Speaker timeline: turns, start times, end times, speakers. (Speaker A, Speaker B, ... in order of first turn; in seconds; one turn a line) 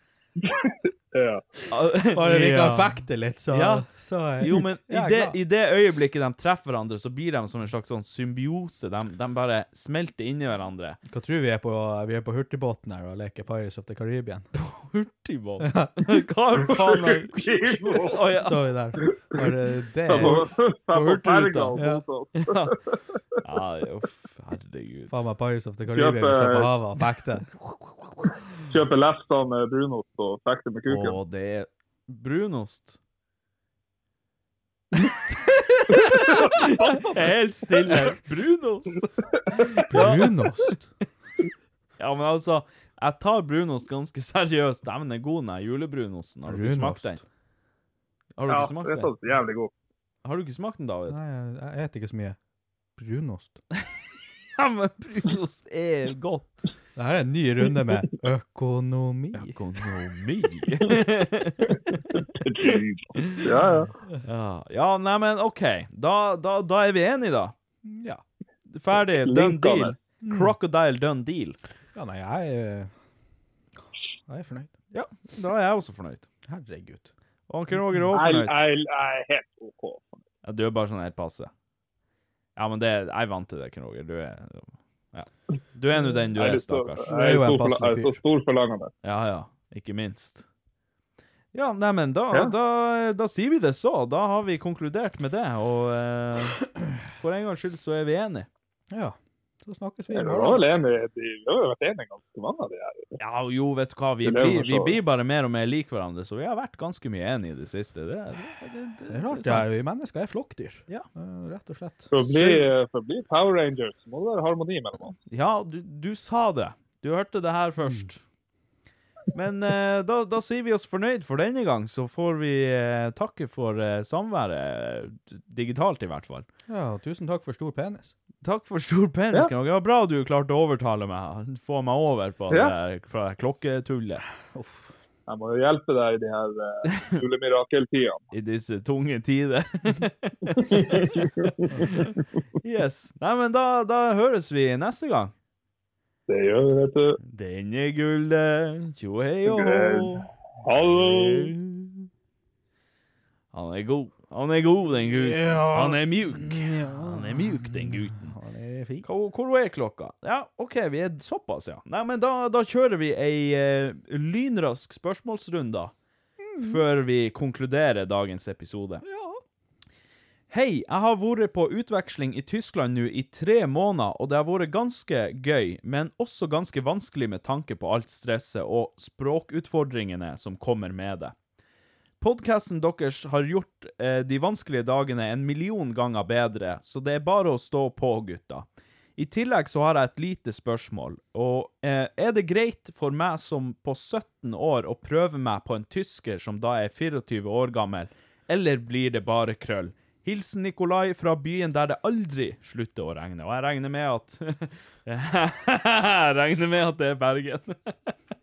Speaker A: 0.4-1.5
Speaker B: 1.7-3.0
Speaker C: 2.1-5.4
Speaker B: 3.5-3.9
Speaker B: 4.4-11.0
Speaker C: 11.1-14.5
Speaker B: 14.5-18.6
Speaker C: 15.7-15.9
Speaker A: 16.6-18.3
Speaker C: 18.4-20.5
Speaker A: 19.0-19.5
Speaker A: 20.1-23.0
Speaker B: 20.1-21.8
Speaker C: 21.8-22.0
Speaker B: 22.4-22.8
Speaker B: 23.4-25.3
Speaker C: 25.1-27.6
Speaker A: 25.9-26.7
Speaker A: 28.7-31.2
Speaker B: 30.9-33.0
Speaker B: 35.1-40.4
Speaker A: 36.1-37.2
Speaker C: 39.9-40.9
Speaker B: 42.0-47.2
Speaker C: 46.5-47.2
Speaker B: 48.4-49.1
Speaker A: 48.5-49.7
Speaker B: 50.2-51.2
Speaker C: 51.1-52.4
Speaker C: 53.0-53.6
Speaker B: 54.6-56.7
Speaker C: 57.0-59.6
Speaker B: 59.3-62.0
Speaker A: 62.4-63.9
Speaker B: 64.2-67.5
Speaker C: 67.8-68.2
Speaker B: 68.7-71.6
Speaker A: 69.1-70.0
Speaker C: 70.2-70.5
Speaker C: 71.9-72.9
Speaker C: 74.3-74.7
Speaker B: 74.9-76.2
Speaker C: 76.5-77.1
Speaker B: 77.5-78.6
Speaker C: 77.7-78.0
Speaker A: 78.1-80.2
Speaker B: 80.4-81.5
Speaker B: 82.6-87.0
Speaker A: 86.3-88.9
Speaker C: 87.1-88.2
Speaker B: 89.0-90.5
Speaker B: 91.5-98.5
Speaker C: 98.9-100.7
Speaker A: 100.1-103.2
Speaker B: 103.2-109.8
Speaker A: 104.2-105.0
Speaker C: 109.1-112.1
Speaker A: 112.1-115.2
Speaker B: 112.2-112.7
Speaker B: 115.3-118.2
Speaker B: 119.3-126.5
Speaker C: 126.7-128.2
Speaker B: 128.4-134.2
Speaker C: 134.5-134.9
Speaker A: 135.3-138.3
Speaker B: 138.3-145.3
Speaker A: 140.7-141.9
Speaker A: 146.3-147.2
Speaker B: 147.2-152.1
Speaker A: 149.4-151.5
Speaker B: 153.5-158.3
Speaker C: 155.0-159.1
Speaker B: 159.0-165.9
Speaker C: 166.4-166.8
Speaker B: 166.6-169.0
Speaker C: 169.0-169.4
Speaker B: 170.5-181.3
Speaker B: 182.2-208.2